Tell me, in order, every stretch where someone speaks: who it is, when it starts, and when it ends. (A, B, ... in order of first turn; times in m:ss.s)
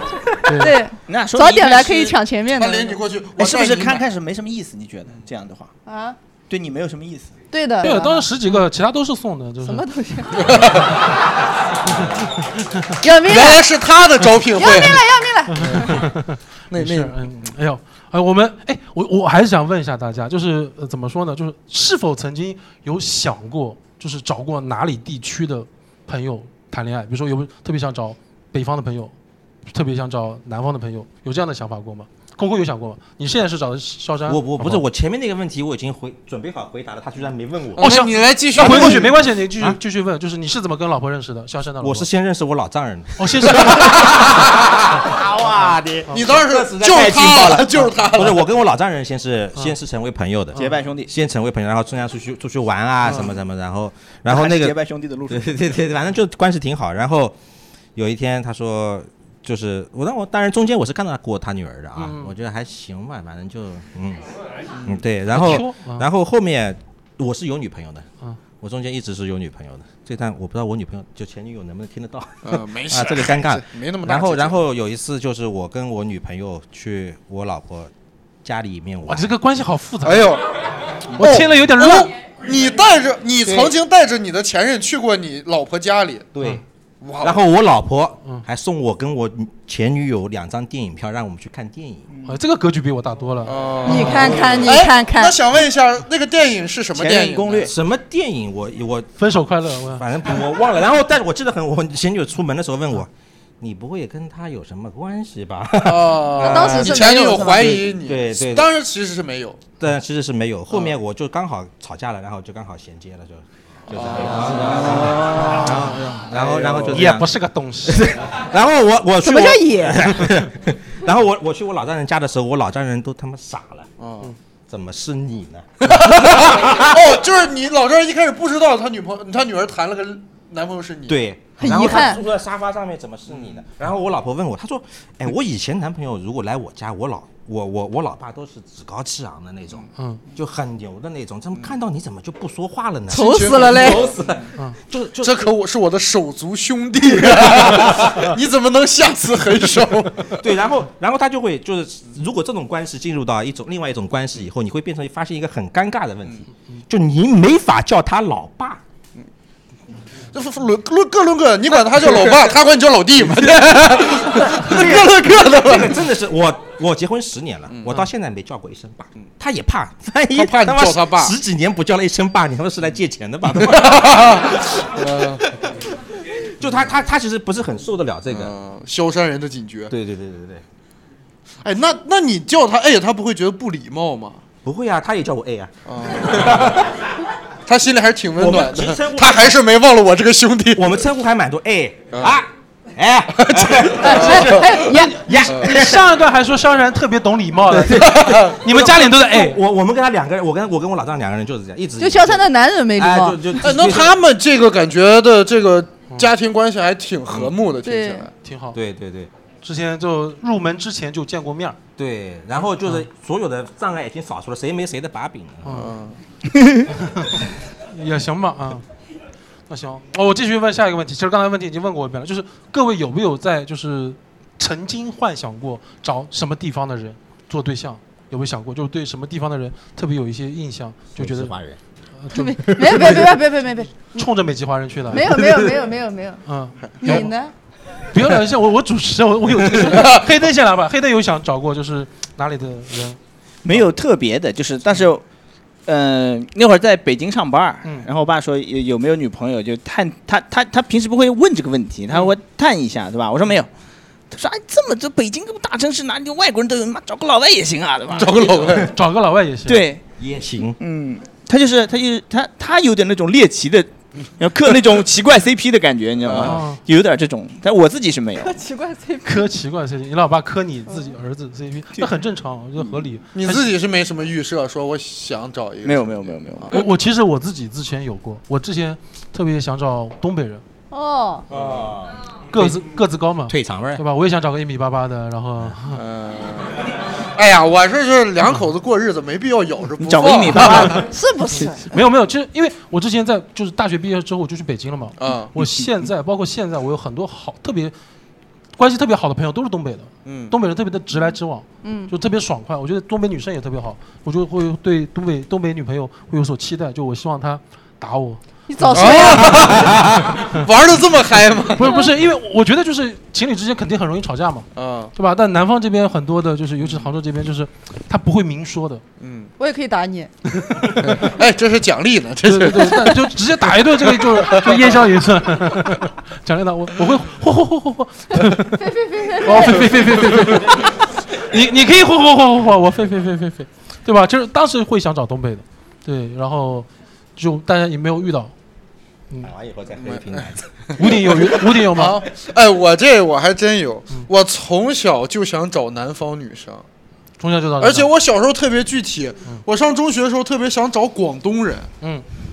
0:00.4-0:00.8 A
0:00.6-0:03.0 B
0:01.1-0:02.2 C
0:02.6-0:04.0 D
0:03.4-0:05.7 C
0:05.8-0:06.2 B
0:06.5-0:07.3 C
0:07.5-0:08.3 B
0:07.8-0:09.8 A
0:09.6-0:10.5 B
0:10.4-0:10.8 D
0:13.0-0:13.6 B
0:13.2-0:15.1 D
0:14.5-0:16.0 B
0:15.5-0:29.1 A
0:15.6-0:16.0 D
0:16.7-0:17.5 D
0:29.7-0:34.8 A
0:34.3-0:37.9 E
0:37.8-0:42.1 A
0:37.8-0:39.1 D
0:38.5-0:39.8 E
0:41.8-0:44.4 E
0:43.2-0:44.1 A
0:45.0-0:54.8 E
0:46.1-0:48.4 D
0:50.6-0:51.1 C
0:54.3-0:55.7 C
0:55.3-0:57.4 E
0:57.9-1:04.3 E
1:02.0-1:02.3 A
1:04.8-1:08.0 E
1:05.3-1:06.1 A
1:08.6-1:17.9 E
1:12.4-1:14.6 D
1:18.4-1:19.3 E
1:19.1-1:20.3 A
1:20.0-1:20.5 D
1:21.1-1:26.3 D
1:21.2-1:22.1 A
1:23.4-1:23.7 E
1:26.3-1:26.6 E
1:27.0-1:27.4 D
1:27.2-1:32.0 E
1:32.2-1:33.6 A
1:33.4-1:37.7 D
1:33.8-1:35.4 B
1:34.2-1:34.7 E
1:36.9-1:37.7 C
1:37.6-1:43.1 E
1:39.2-1:40.0 A
1:43.6-1:47.1 E
1:45.8-1:49.6 D
1:46.4-1:47.8 B
1:47.6-1:48.7 E
1:49.8-1:57.3 E
1:53.9-1:57.0 D
1:56.8-1:58.1 A
1:57.8-2:03.9 E
1:59.3-1:59.6 B
2:04.0-2:04.3 D
2:04.7-2:06.8 E
2:05.8-2:11.3 D
2:11.1-2:25.5 E
2:11.6-2:12.2 B
2:23.1-2:24.0 B
2:23.1-2:24.1 D
2:25.2-2:30.4 D
2:27.4-2:28.1 E
2:30.4-2:38.8 E
2:40.3-2:46.0 D
2:42.0-2:42.3 E
2:44.2-2:54.8 E
2:47.7-2:48.0 D
2:50.3-2:51.3 D
2:53.6-2:55.5 D
2:56.6-2:58.5 E
2:58.3-2:59.9 D
2:59.9-3:00.6 E
3:01.6-3:04.4 D
3:04.6-3:05.7 E
3:05.9-3:06.9 D
3:06.3-3:06.7 E
3:07.6-3:10.9 D
3:08.4-3:09.6 E
3:10.7-3:16.1 E
3:12.1-3:12.4 D
3:13.4-3:14.7 D
3:14.0-3:15.2 B
3:14.9-3:19.6 A
3:17.7-3:24.1 E
3:18.0-3:18.6 D
3:22.0-3:23.5 B
3:23.6-3:28.3 D
3:27.3-3:27.5 E
3:27.8-3:28.2 B
3:28.4-3:28.8 A
3:28.7-3:29.3 E
3:29.6-3:31.8 A
3:32.0-3:35.8 E
3:35.6-3:35.9 A
3:35.7-3:36.2 D
3:36.9-3:38.8 A
3:39.7-3:51.5 A
3:51.2-3:51.8 E
3:52.2-3:52.5 A
3:52.3-3:54.3 B
3:52.8-3:53.1 E
3:54.1-3:55.3 A
3:55.1-3:56.4 B
3:56.4-3:57.3 A
3:56.8-3:57.2 D
3:57.0-3:57.5 B
3:58.1-4:03.2 A
3:59.8-4:00.2 D
4:03.6-4:05.2 C
4:05.8-4:13.7 C
4:14.3-4:18.8 C
4:18.1-4:18.9 D
4:18.9-4:19.8 A
4:19.6-4:20.0 C
4:20.2-4:20.8 E
4:20.8-4:28.6 C
4:26.2-4:26.6 D
4:26.4-4:26.8 A
4:28.6-4:29.3 B
4:29.2-4:33.7 A
4:33.3-4:36.8 D
4:35.8-4:36.8 C
4:36.7-4:40.6 A
4:40.9-4:41.4 B
4:41.5-4:42.1 E
4:42.5-4:46.0 A
4:43.5-4:44.0 E
4:45.9-4:46.7 D
4:47.4-4:51.1 D
4:50.0-4:51.1 C
4:51.1-4:51.8 B
4:51.6-4:57.9 A
4:55.2-4:55.5 D
4:58.8-5:09.6 A
5:00.2-5:00.5 D
5:01.8-5:02.1 B
5:08.7-5:09.6 B
5:08.9-5:11.9 D
5:11.8-5:19.0 A
5:14.8-5:15.1 D
5:19.2-5:19.5 D
5:19.6-5:20.3 B
5:20.6-5:21.1 A
5:21.0-5:23.1 D
5:22.4-5:38.5 A
5:24.1-5:24.9 D
5:28.9-5:29.8 B
5:39.4-5:40.6 E
5:40.0-5:46.8 D
5:41.0-5:42.2 A
5:47.4-5:48.1 A
5:47.8-5:51.9 D